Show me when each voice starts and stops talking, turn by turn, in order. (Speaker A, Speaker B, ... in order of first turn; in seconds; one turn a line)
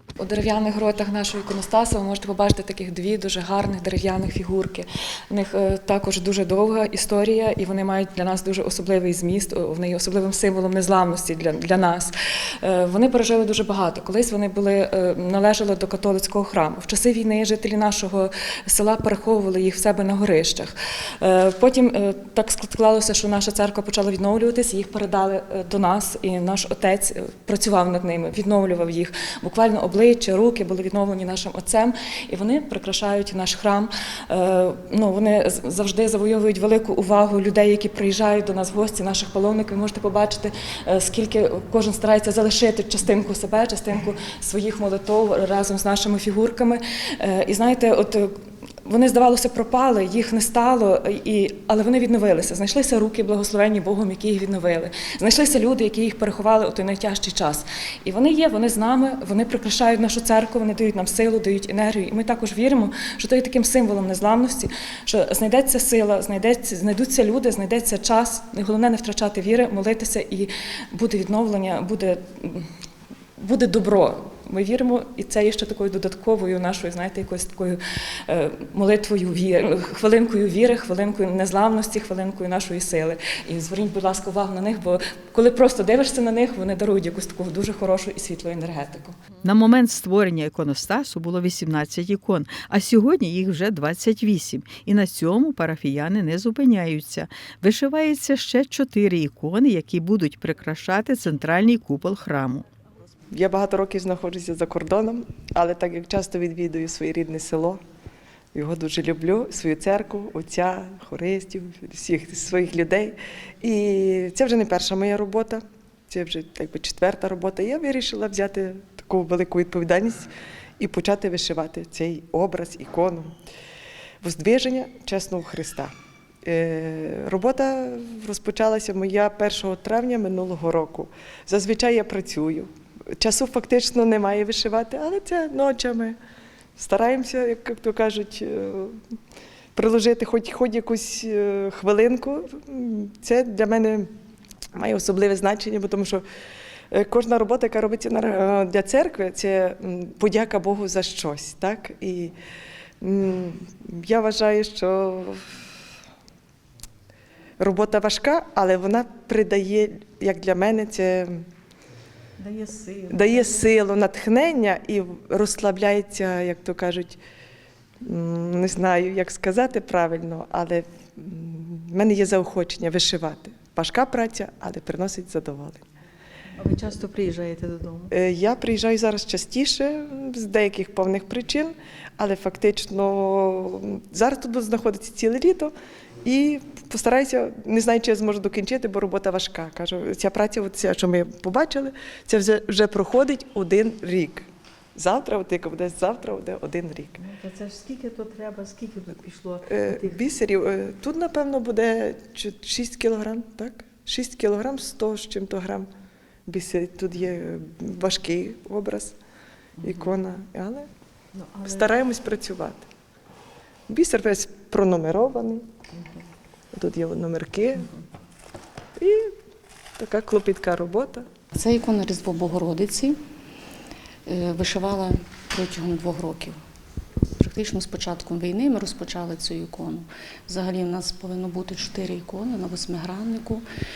Speaker A: 0.2-72.7
Speaker A: 73.4-89.2
Speaker B: 89.4-102.7
Speaker C: 103.3-107.8
Speaker C: 108.5-123.4
Speaker C: 124.2-125.9
Speaker C: 126.4-136.2
Speaker C: 136.8-139.0
Speaker C: 139.8-144.1
Speaker C: 144.8-146.2
Speaker C: 146.9-152.3
Speaker C: 153.0-155.5
Speaker C: 157.6-161.5
Speaker B: 162.4-163.6
Speaker C: 163.1-167.2
Speaker C: 168.0-175.8
Speaker B: 176.6-178.1
Speaker C: 178.1-185.7
Speaker C: 186.2-197.2
Speaker B: 197.2-200.2
Speaker C: 199.7-205.9
Speaker C: 206.5-209.2
Speaker C: 209.8-210.9
Speaker C: 211.6-212.8
Speaker C: 213.9-215.7
Speaker C: 216.7-217.9
Speaker C: 219.0-219.3
Speaker C: 220.0-221.3
Speaker D: 221.6-223.2
Speaker D: 224.3-226.6
Speaker D: 227.4-233.7